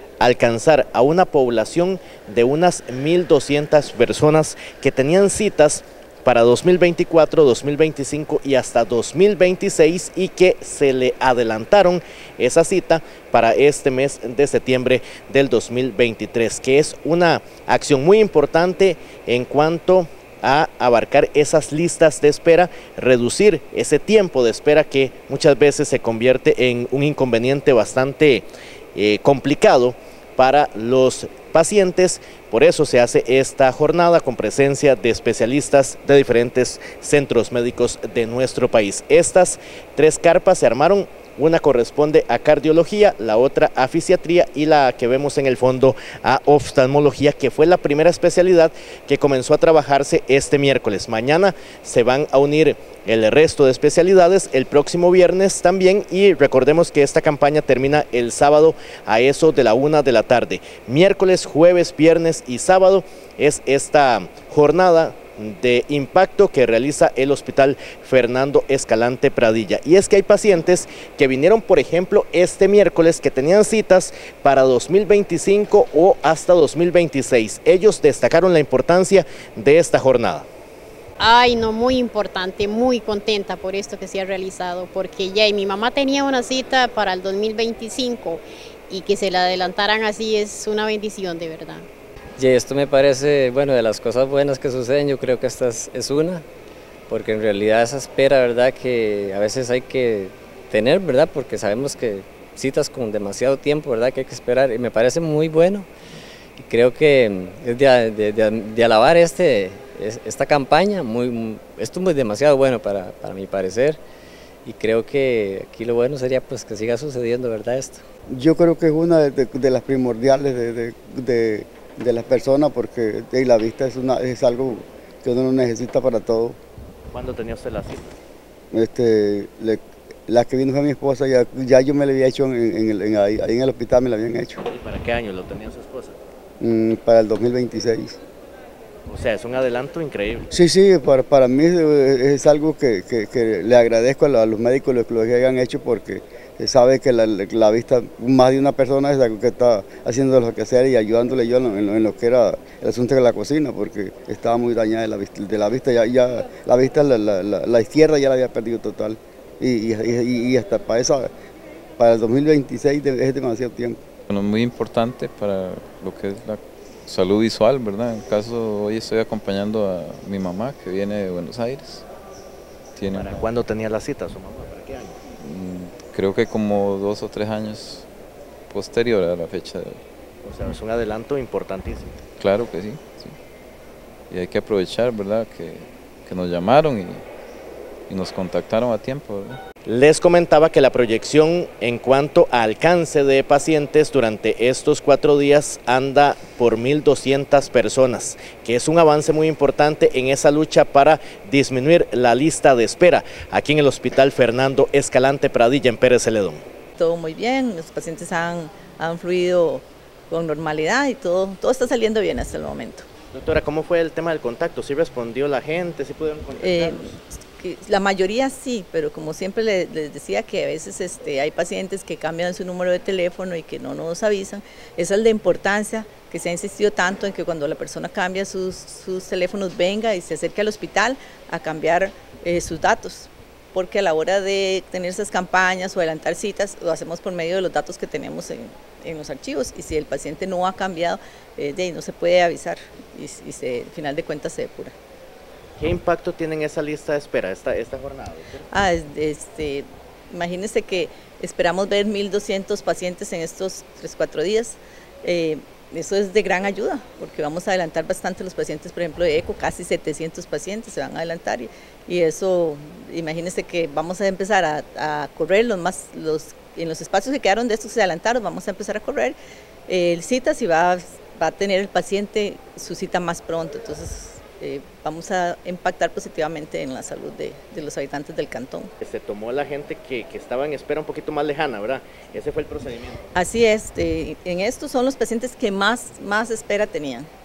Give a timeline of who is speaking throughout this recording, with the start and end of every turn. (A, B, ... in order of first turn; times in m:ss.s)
0:00.2-1:20.5 A
1:21.2-1:31.9 B
1:32.4-1:36.4 C
1:37.1-1:45.9 C
1:46.6-1:54.0 C
1:54.6-1:58.0 C
1:58.3-2:06.6 D
2:07.1-2:08.2 A
2:08.7-2:14.6 D
2:14.6-2:16.2 A
2:16.6-2:18.2 D
2:19.1-2:20.5 A
2:20.5-2:41.3 D
2:42.0-2:44.0 D
2:44.3-2:52.1 E
2:53.0-2:53.5 E
2:53.1-2:55.2 A
2:55.4-2:58.1 E
2:58.7-3:00.0 E
3:00.4-3:02.2 A
3:02.4-3:03.4 E
3:04.3-3:07.3 E
3:08.1-3:09.6 E
3:09.9-3:26.6 A
3:27.0-3:33.1 F
3:33.3-3:37.1 A
3:36.6-4:04.9 F
4:05.8-4:08.7 A
4:08.7-4:29.4 F
4:29.9-4:38.9 F
4:39.0-4:43.2 A
4:43.3-4:47.3 F